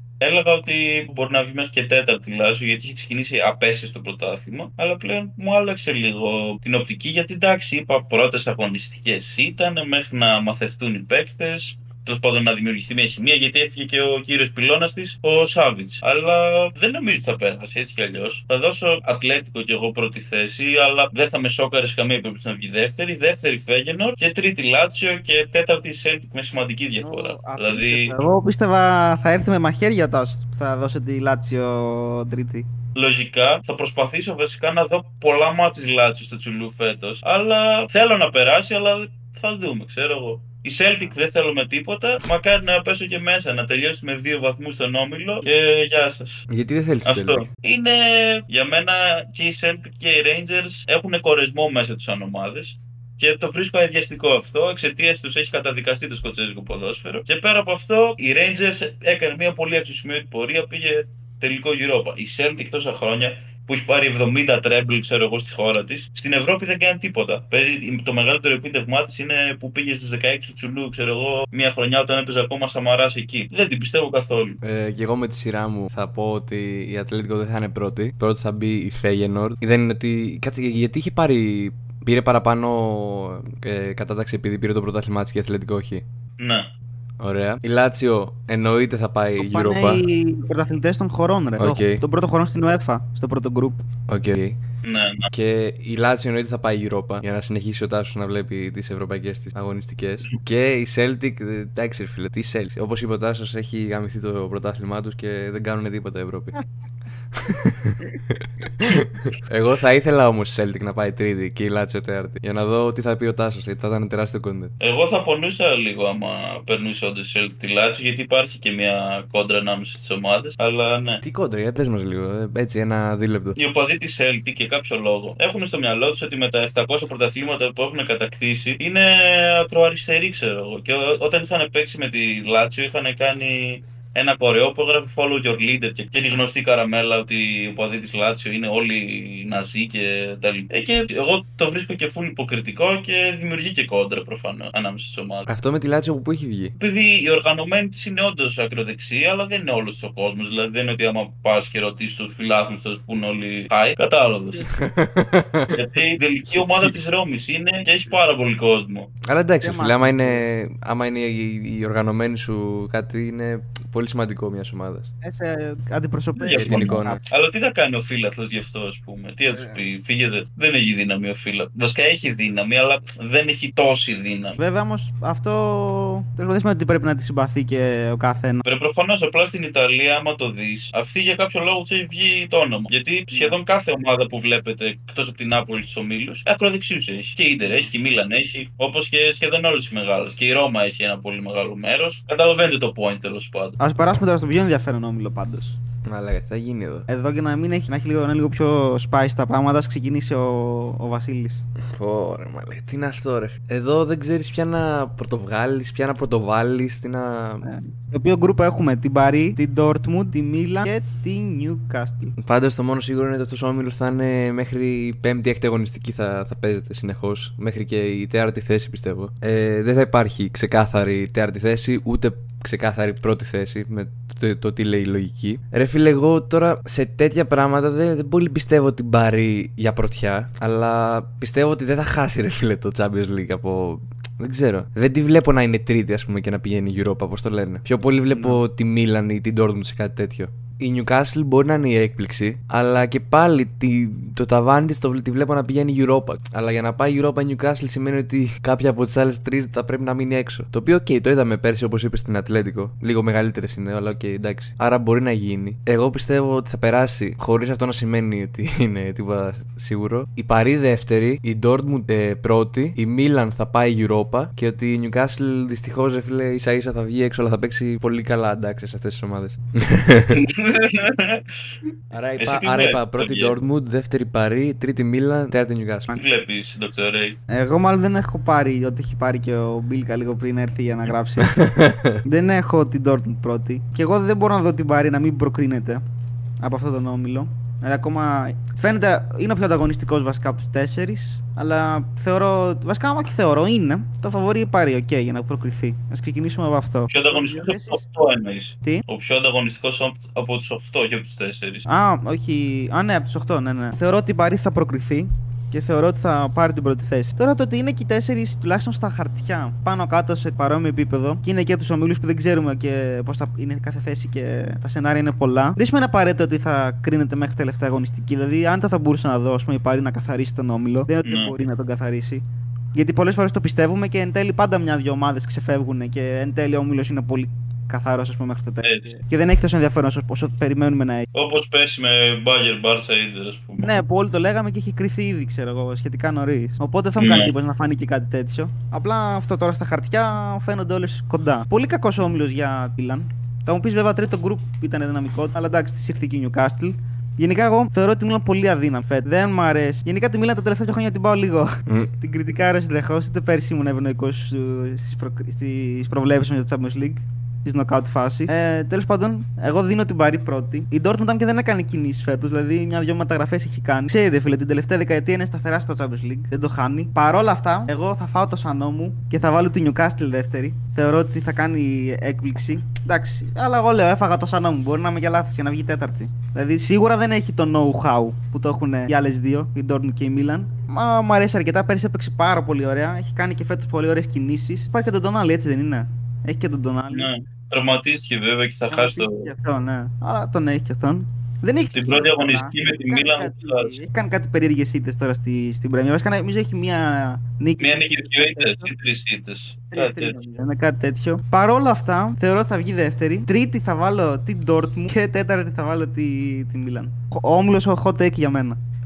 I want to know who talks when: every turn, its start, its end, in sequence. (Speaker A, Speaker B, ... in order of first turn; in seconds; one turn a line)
Speaker A: 0.2-28.2
Speaker B: 27.0-32.7
Speaker A: 32.9-46.5
Speaker C: 46.5-47.5
Speaker A: 47.0-74.6
Speaker C: 74.6-86.0
Speaker A: 86.4-86.7
Speaker C: 87.2-90.0
Speaker B: 89.3-93.8
Speaker C: 91.6-92.0
Speaker C: 94.1-94.6
Speaker A: 94.8-95.3
Speaker C: 95.3-106.5
Speaker C: 107.3-114.7
Speaker A: 114.8-121.2
Speaker C: 121.2-123.6
Speaker A: 123.6-145.5
Speaker C: 145.5-146.7
Speaker A: 146.8-154.7
Speaker C: 154.7-155.8
Speaker A: 155.7-159.1
Speaker C: 156.5-156.9
Speaker C: 159.2-165.1
Speaker B: 159.6-160.4
Speaker B: 165.2-167.2
Speaker A: 166.4-174.6
Speaker C: 166.5-167.2
Speaker C: 169.5-169.9
Speaker B: 174.6-178.6
Speaker A: 178.6-193.8
Speaker B: 183.3-183.6
Speaker B: 187.6-187.9
Speaker B: 193.8-195.8
Speaker C: 196.0-197.1
Speaker B: 197.1-201.6
Speaker C: 201.9-207.7
Speaker B: 207.6-212.3
Speaker C: 212.4-270.4
Speaker B: 238.3-238.6
Speaker A: 270.3-271.4
Speaker C: 272.1-276.2
Speaker A: 272.4-273.5
Speaker A: 276.1-277.4
Speaker B: 277.5-281.7
Speaker C: 281.4-282.2
Speaker B: 282.2-286.0
Speaker B: 286.6-298.0
Speaker A: 297.1-301.9
Speaker B: 301.9-322.4
Speaker A: 321.2-321.6
Speaker B: 322.9-331.3
Speaker A: 328.8-329.1
Speaker A: 331.3-334.0
Speaker B: 333.8-387.3
Speaker A: 337.2-337.5
Speaker A: 387.1-389.5
Speaker B: 388.9-398.9
Speaker A: 391.9-394.0
Speaker A: 397.8-400.4
Speaker B: 399.9-408.8